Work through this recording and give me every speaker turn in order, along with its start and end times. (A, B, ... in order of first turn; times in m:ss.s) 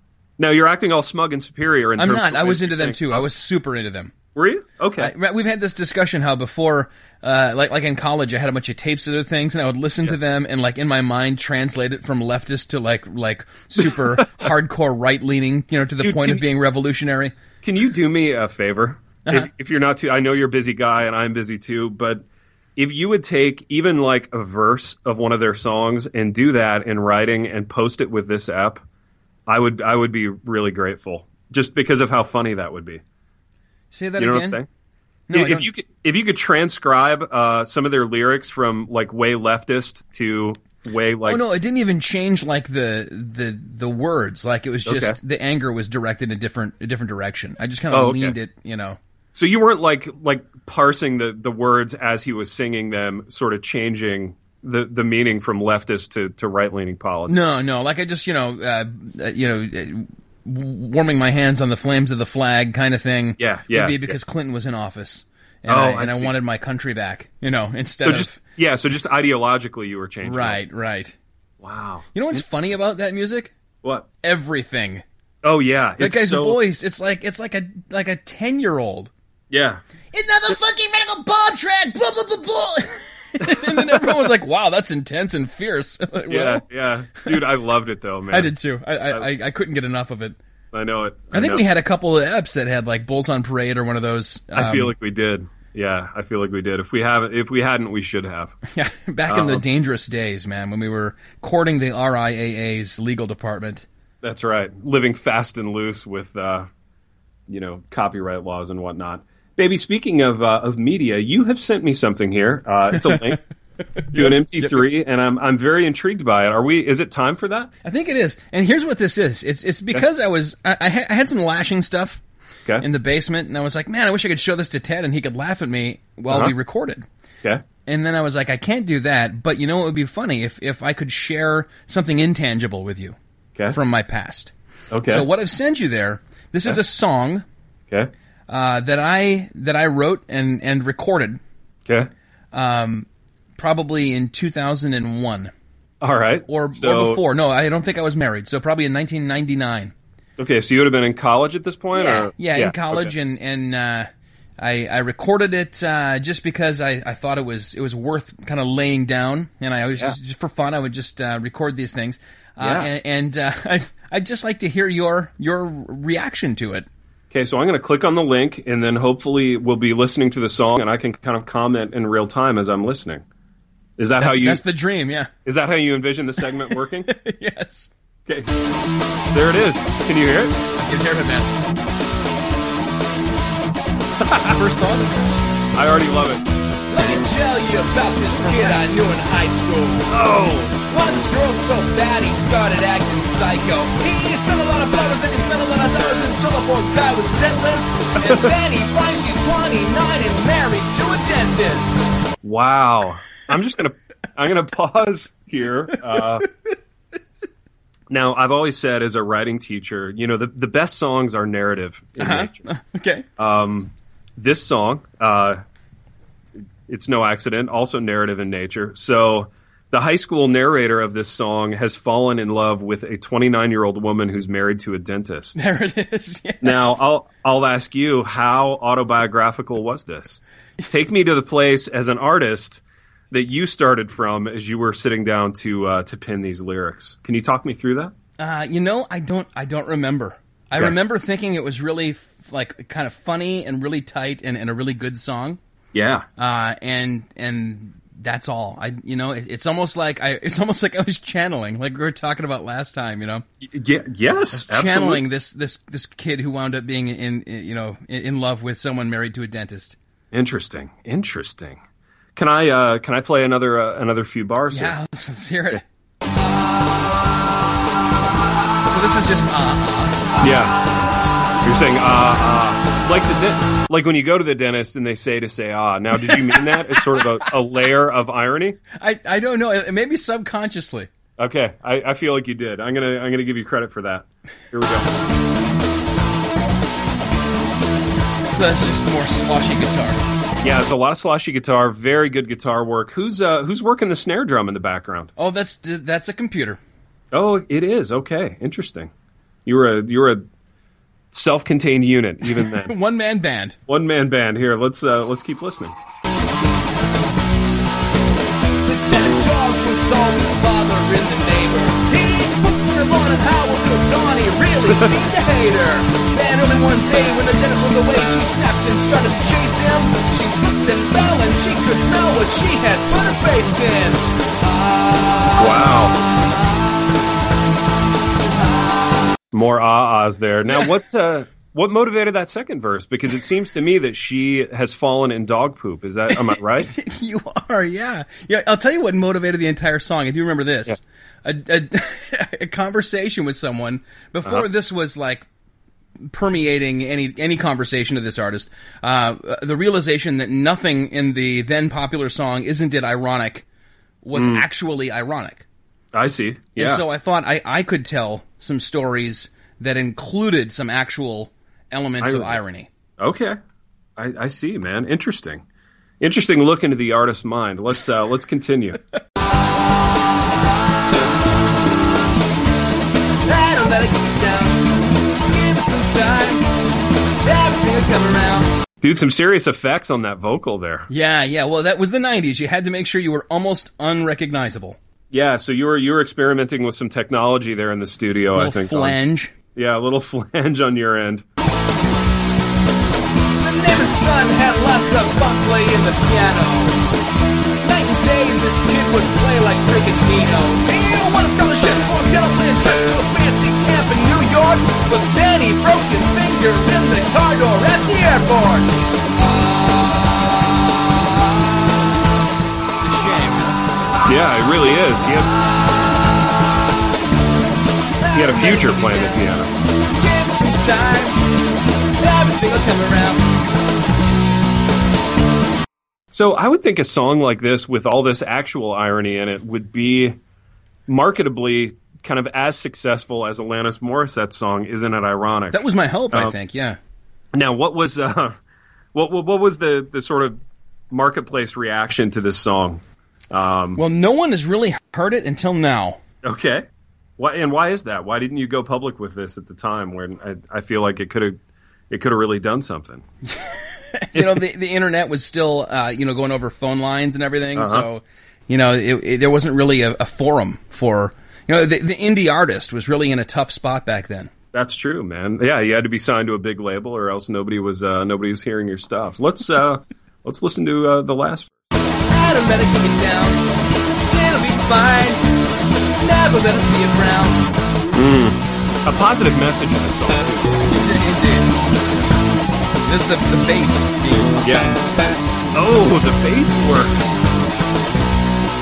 0:00.4-0:03.3 A
0:02.0-0:04.1 B
0:04.3-0:05.1 A
0:05.0-0:17.3 B
0:13.8-0:14.5 A
0:16.0-0:16.4 A
0:17.6-0:22.2 A
0:22.8-0:28.8 A
0:29.5-0:33.0 A
0:33.9-0:34.6 B
0:34.2-0:34.7 A
0:35.3-0:35.7 B
0:35.3-0:41.4 A
0:41.2-0:49.0 B
0:44.8-0:45.2 A
0:47.9-0:48.3 A
0:49.3-0:57.4 A
0:57.3-1:08.4 B
1:03.4-1:04.2 A
1:05.7-1:06.3 A
1:08.0-1:10.6 A
1:10.2-1:11.2 B
1:11.6-1:12.4 A
1:12.1-1:13.5 B
1:14.2-1:15.0 B
1:15.4-1:16.6 A
1:16.0-1:19.1 B
1:19.5-1:19.8 A
1:20.1-1:26.6 B
1:23.4-1:24.3 A
1:26.3-1:28.5 A
1:28.3-1:30.4 B
1:30.7-1:31.6 A
1:31.3-1:34.9 B
1:34.5-1:38.6 A
1:38.7-1:43.9 B
1:39.3-1:39.6 A
1:44.2-1:46.7 A
1:47.5-1:53.4 A
1:53.0-1:53.4 B
1:54.0-1:54.8 B
1:54.1-1:57.7 A
1:57.8-2:02.2 B
2:02.8-2:07.0 B
2:07.8-2:13.2 B
2:13.7-2:14.5 B
2:14.9-2:15.3 A
2:15.0-2:17.4 B
2:18.5-2:21.4 B
2:22.5-2:25.5 B
2:26.0-2:27.2 A
2:26.5-2:29.9 B
2:30.4-2:33.1 A
2:31.9-2:46.8 B
2:42.6-2:42.9 A
2:47.3-2:53.2 A
2:54.0-2:54.6 A
2:54.2-2:55.3 B
2:55.4-2:57.1 A
2:56.6-2:57.9 B
2:58.2-2:58.5 A
2:59.3-3:00.6 A
3:00.8-3:01.5 B
3:04.2-3:05.1 B
3:05.7-3:06.4 A
3:06.9-3:10.1 C
3:10.1-3:10.8 A
3:10.9-3:22.1 C
3:18.2-3:18.5 A
3:22.4-3:26.5 A
3:28.1-3:32.6 A
3:32.2-3:33.2 B
3:33.4-3:35.6 A
3:36.9-3:45.6 A
3:45.5-3:47.0 B
3:46.6-3:58.1 A
3:58.4-4:05.6 B
4:05.9-4:06.2 A
4:06.4-4:13.4 B
4:13.6-4:15.2 A
4:14.5-4:20.0 B
4:20.3-4:21.8 A
4:22.3-4:25.0 A
4:24.7-4:25.8 B
4:28.9-4:30.3 B
4:30.4-4:30.8 A
4:31.6-4:38.8 A
4:36.2-4:37.5 B
4:38.9-4:41.1 B
4:41.4-4:45.1 A
4:48.5-4:50.2 B
4:50.6-4:55.3 A
4:55.4-4:56.8 B
4:57.3-4:59.1 A
4:59.6-5:00.4 A
5:01.3-5:02.9 A
5:02.6-5:03.8 B
5:03.9-5:05.9 A
5:08.8-5:24.2 C
5:25.5-5:26.2 A
5:29.5-5:36.9 A
5:36.3-5:45.5 B
5:46.3-5:53.6 B
5:54.2-5:55.6 B
5:54.3-5:54.6 A
5:56.1-5:57.0 A
5:56.8-6:02.9 B
6:02.2-6:02.6 A
6:03.2-6:03.6 A
6:04.2-6:05.6 A
6:06.2-6:09.0 A
6:13.4-6:16.6 C
6:17.4-6:18.7 C
6:19.0-6:21.1 A
6:21.1-6:25.0 B
6:25.3-6:29.2 A
6:28.5-6:29.5 B
6:29.7-6:31.4 A
6:33.6-6:37.0 C
6:37.8-6:49.0 C
6:53.0-6:53.8 B
6:54.2-6:55.5 A
6:58.2-6:59.5 C
6:58.3-6:59.7 A
7:00.1-7:01.4 C
7:02.2-7:03.5 C
7:06.3-7:10.4 A
7:11.1-7:16.5 A
7:15.7-7:17.0 B
7:17.5-7:18.6 A
7:19.1-7:20.6 A
7:21.1-7:24.0 A
7:24.0-7:26.2 B
7:26.4-7:26.8 A
7:27.4-7:31.6 A
7:32.1-7:33.2 A
7:34.1-7:44.5 B
7:34.3-7:34.6 A
7:37.7-7:38.0 A
7:44.7-7:51.7 A
7:52.3-7:53.6 C
7:54.3-7:55.4 C
7:56.2-7:57.6 C
7:58.1-8:00.9 A
8:00.8-8:01.8 B
8:03.1-8:05.4 B
8:04.6-8:04.9 A
8:05.7-8:07.2 A